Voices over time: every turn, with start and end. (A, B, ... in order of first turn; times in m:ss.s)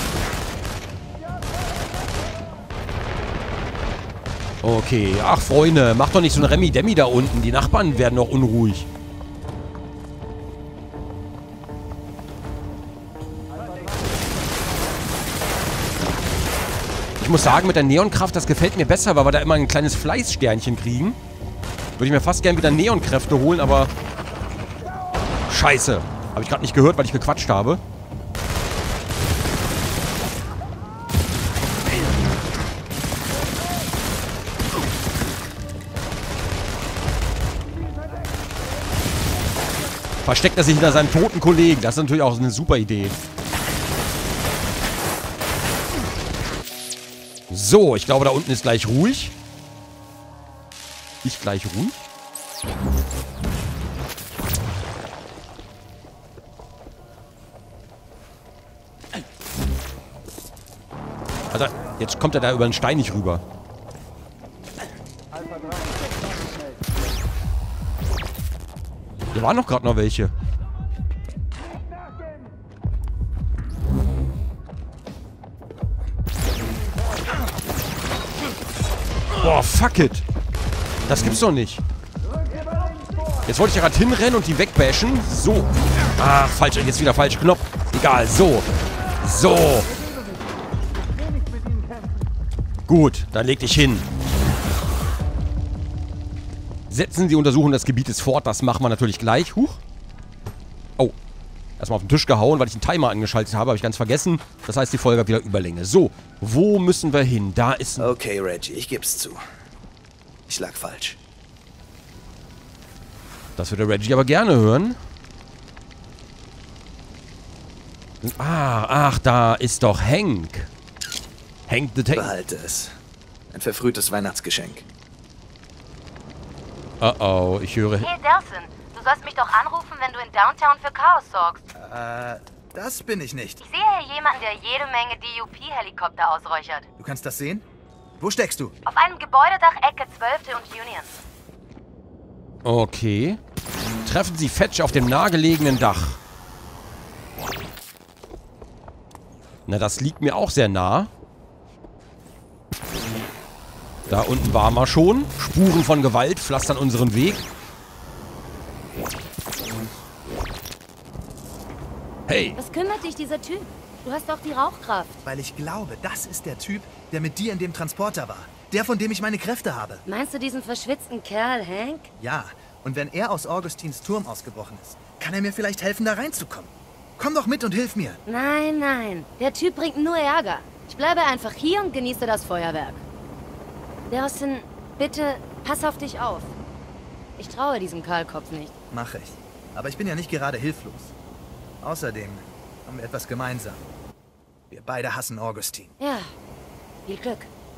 0:04.6-0:08.9 A
0:17.2-0:21.2 A
0:22.0-0:23.9 A
0:25.5-0:27.8 A
0:40.2-0:43.2 A
0:47.5-0:49.3 A
0:51.2-0:52.0 A
1:01.5-1:03.4 A
1:09.3-1:10.3 A
1:19.4-1:20.2 A
1:21.1-1:21.8 A
1:23.4-1:29.9 A
1:32.9-1:34.1 A
1:36.9-1:39.8 A
1:41.8-1:48.1 A
1:48.0-1:49.4 B
1:50.5-1:51.2 B
1:53.6-1:55.0 A
1:58.2-2:00.7 A
2:01.7-2:02.3 A
2:02.1-2:03.0 B
2:03.5-2:04.8 B
2:07.0-2:08.1 A
2:08.0-2:11.6 C
2:11.8-2:13.6 B
2:13.6-2:16.9 C
2:17.0-2:17.6 B
2:18.2-2:18.7 B
2:18.9-2:21.2 C
2:22.6-2:23.4 A
2:24.0-2:26.2 A
2:29.7-2:31.1 A
2:34.1-2:37.4 A
2:42.3-2:42.6 A
2:42.6-2:45.1 C
2:45.2-2:50.0 B
2:50.1-2:52.1 C
2:52.2-2:58.2 B
2:58.3-3:03.0 C
3:04.1-3:06.5 C
3:07.4-3:08.7 C
3:08.9-3:11.1 B
3:11.8-3:13.8 B
3:14.7-3:15.9 B
3:16.0-3:16.3 C
3:17.1-3:17.5 C